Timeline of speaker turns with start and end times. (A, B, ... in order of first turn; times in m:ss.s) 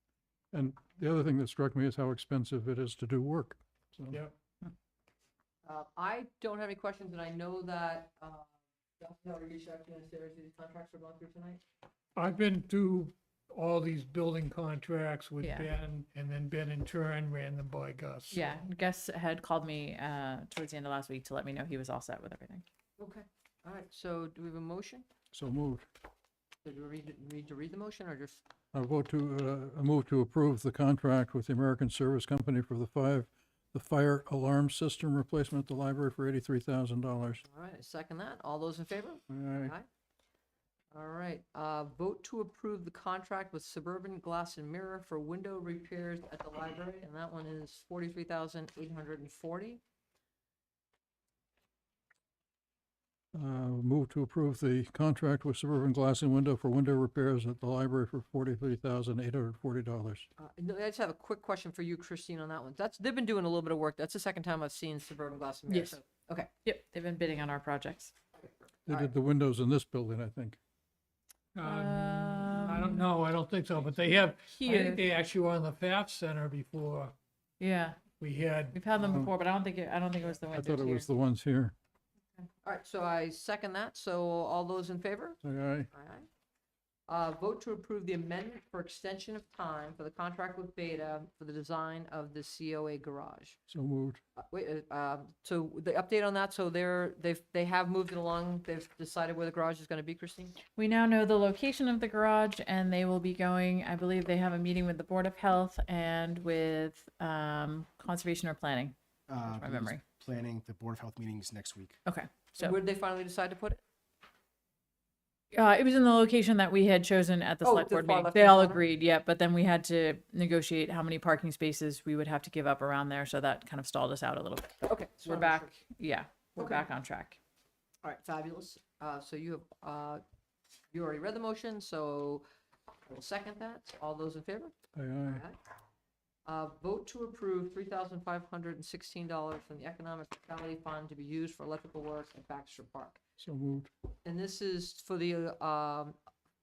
0:00.5-0:04.2 A
0:05.6-0:11.6 B
0:12.2-0:18.5 C
0:15.4-0:15.7 D
0:18.3-0:22.7 D
0:23.0-0:25.1 B
0:25.3-0:25.8 A
0:26.6-0:28.4 B
0:28.7-0:37.4 A
0:37.4-0:39.8 B
0:39.3-0:39.7 A
0:40.9-0:49.8 B
0:53.3-1:00.3 A
1:00.4-1:06.5 B
1:05.7-1:06.0 D
1:06.6-1:08.1 D
1:08.9-1:10.6 A
1:11.5-1:17.1 C
1:11.6-1:13.0 D
1:14.5-1:15.0 D
1:17.6-1:18.0 D
1:18.4-1:19.2 C
1:18.7-1:21.0 D
1:20.5-1:21.7 A
1:22.4-1:25.4 B
1:25.4-1:25.9 A
1:25.9-1:26.3 B
1:27.1-1:33.6 B
1:33.7-1:34.2 A
1:34.4-1:40.6 B
1:40.8-1:50.0 D
1:49.3-1:52.0 E
1:52.0-1:52.8 D
1:52.6-1:53.8 B
1:55.5-2:07.4 D
1:57.6-1:58.8 B
2:04.8-2:05.8 B
2:06.6-2:06.9 B
2:08.0-2:10.2 B
2:10.9-2:12.4 B
2:13.1-2:14.7 B
2:14.9-2:15.4 A
2:15.2-2:15.6 B
2:16.4-2:23.2 B
2:23.4-2:23.9 A
2:24.2-2:26.2 B